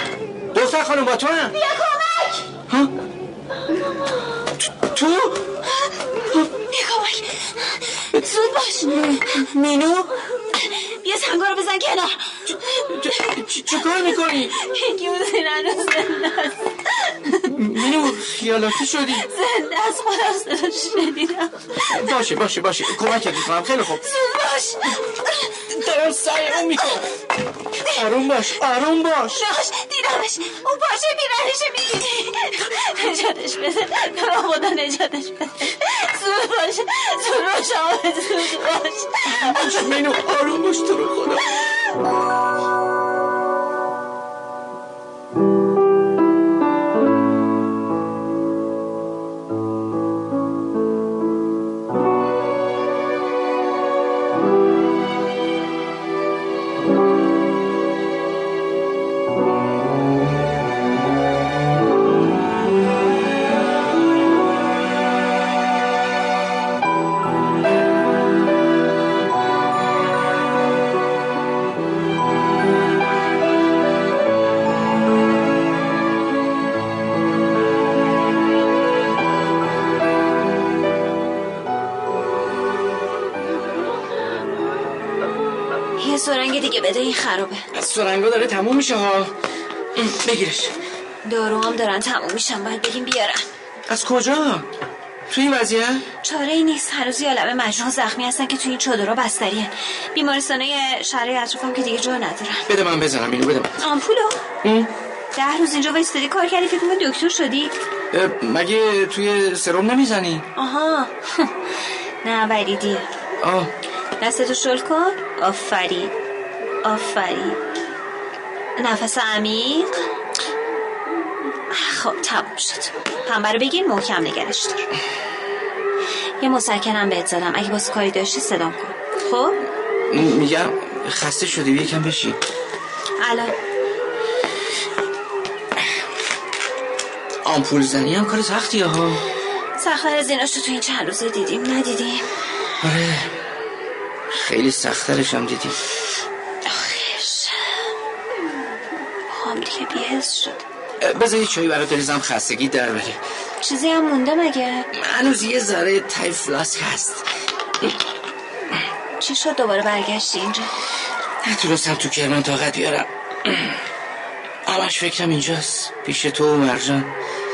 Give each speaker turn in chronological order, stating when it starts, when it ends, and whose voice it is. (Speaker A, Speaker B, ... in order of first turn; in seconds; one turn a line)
Speaker A: 0.5-1.6
Speaker B: 1.5-2.4
Speaker A: 4.6-5.4
Speaker B: 6.7-9.4
Speaker A: 9.0-10.1
Speaker B: 10.6-18.2
Speaker A: 12.5-14.6
Speaker A: 17.4-19.2
Speaker B: 19.1-22.1
Speaker A: 21.9-24.0
Speaker B: 24.0-25.6
Speaker A: 25.7-27.1
Speaker A: 27.9-29.4
Speaker B: 29.4-39.9
Speaker A: 39.2-41.6
Speaker B: 86.0-87.7
Speaker A: 87.7-89.3
Speaker A: 90.0-90.7
Speaker B: 91.2-93.4
Speaker A: 93.9-94.7
Speaker A: 95.3-96.0
Speaker B: 96.2-102.7
Speaker A: 102.7-103.8
Speaker B: 103.8-104.4
Speaker A: 104.6-104.9
Speaker B: 105.3-107.7
Speaker A: 108.1-110.5
Speaker B: 110.5-111.5
Speaker B: 112.2-113.1
Speaker A: 113.4-113.7
Speaker B: 114.2-116.1
Speaker B: 116.8-117.6
Speaker B: 118.8-119.9
Speaker B: 121.7-124.9
Speaker B: 126.4-129.6
Speaker A: 130.1-132.4
Speaker B: 133.2-133.5
Speaker A: 137.4-139.2
Speaker B: 139.8-142.2
Speaker A: 142.8-143.3
Speaker A: 144.3-145.8
Speaker B: 146.6-147.7
Speaker B: 149.3-150.6
Speaker A: 151.0-153.2
Speaker B: 153.6-154.9
Speaker A: 154.9-157.2
Speaker B: 159.2-160.7
Speaker A: 161.4-163.8
Speaker A: 164.7-167.1